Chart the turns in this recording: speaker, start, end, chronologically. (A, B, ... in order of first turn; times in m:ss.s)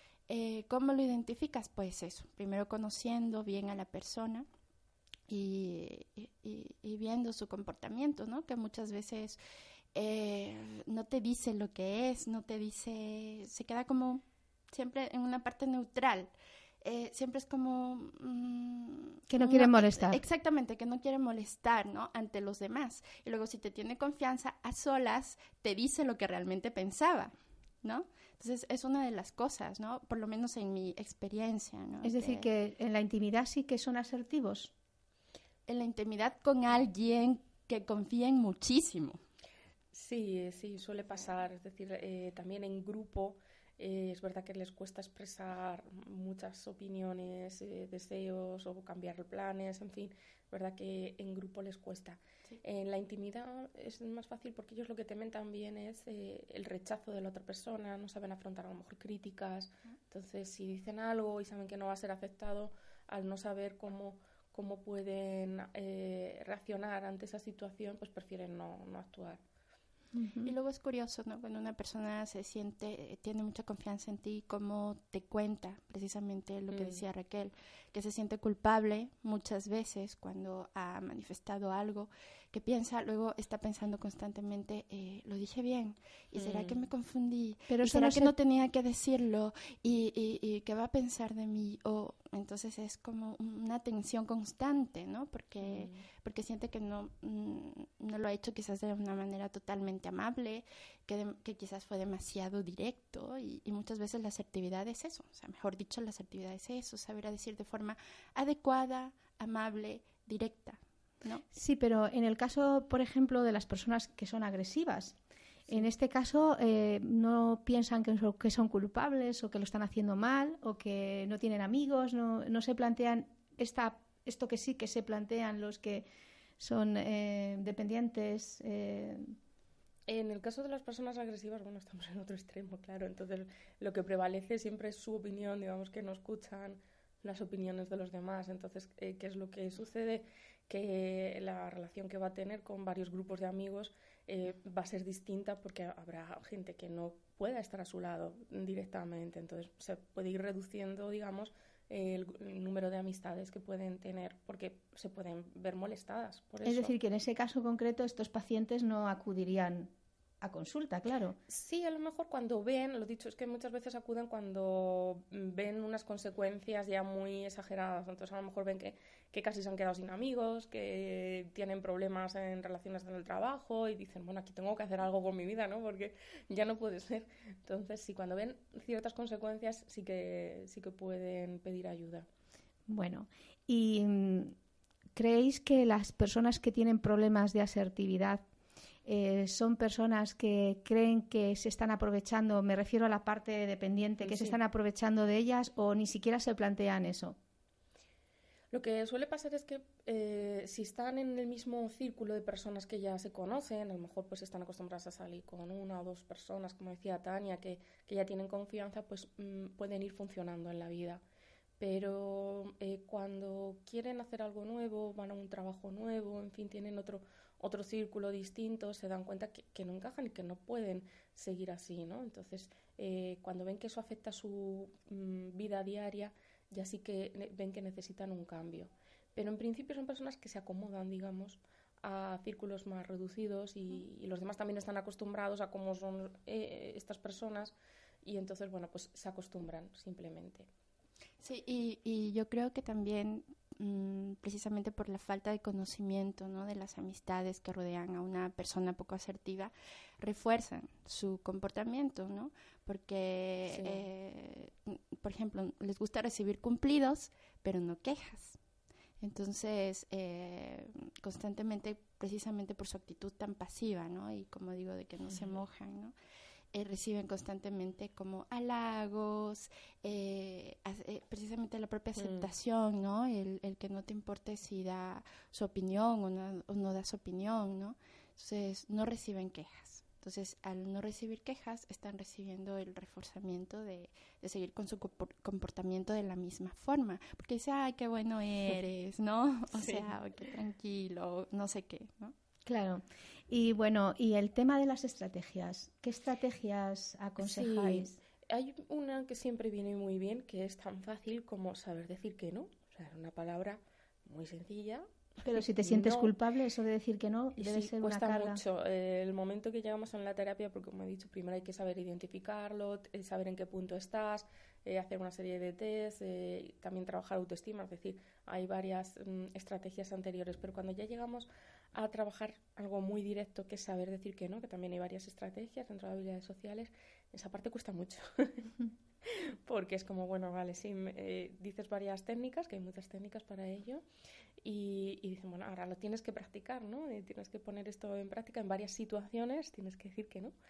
0:00.3-0:04.4 A
0:05.3-0:09.4 A
0:09.9-0:32.5 A
0:19.3-0:20.2 B
0:32.0-0:34.7 B
0:35.6-0:39.2 A
0:39.9-1:09.4 C
1:10.1-1:10.5 B
1:10.4-1:51.4 A
1:16.7-1:17.0 C
1:26.3-1:26.8 C
1:27.7-1:28.3 B
1:35.6-1:36.1 C
1:51.5-1:55.2 B
1:55.7-2:06.0 B
2:06.6-2:09.3 B
2:10.1-2:36.9 C
2:36.6-2:41.4 B
2:41.5-3:02.3 C
3:02.9-3:04.5 B
3:05.2-3:08.4 B
3:09.0-3:17.4 B
3:14.2-3:14.6 C
3:18.7-3:31.2 C
3:31.8-4:00.7 C
4:01.4-4:18.6 A
4:13.7-4:14.1 C
4:19.2-4:26.1 A
4:25.2-4:25.6 C
4:26.7-4:52.3 A
4:32.1-4:32.5 C
4:49.7-4:50.2 C
4:52.6-4:58.2 B
4:57.4-5:06.3 C
5:05.4-5:08.6 B
5:07.6-5:28.7 C
5:29.2-5:34.0 C
5:34.6-5:40.6 C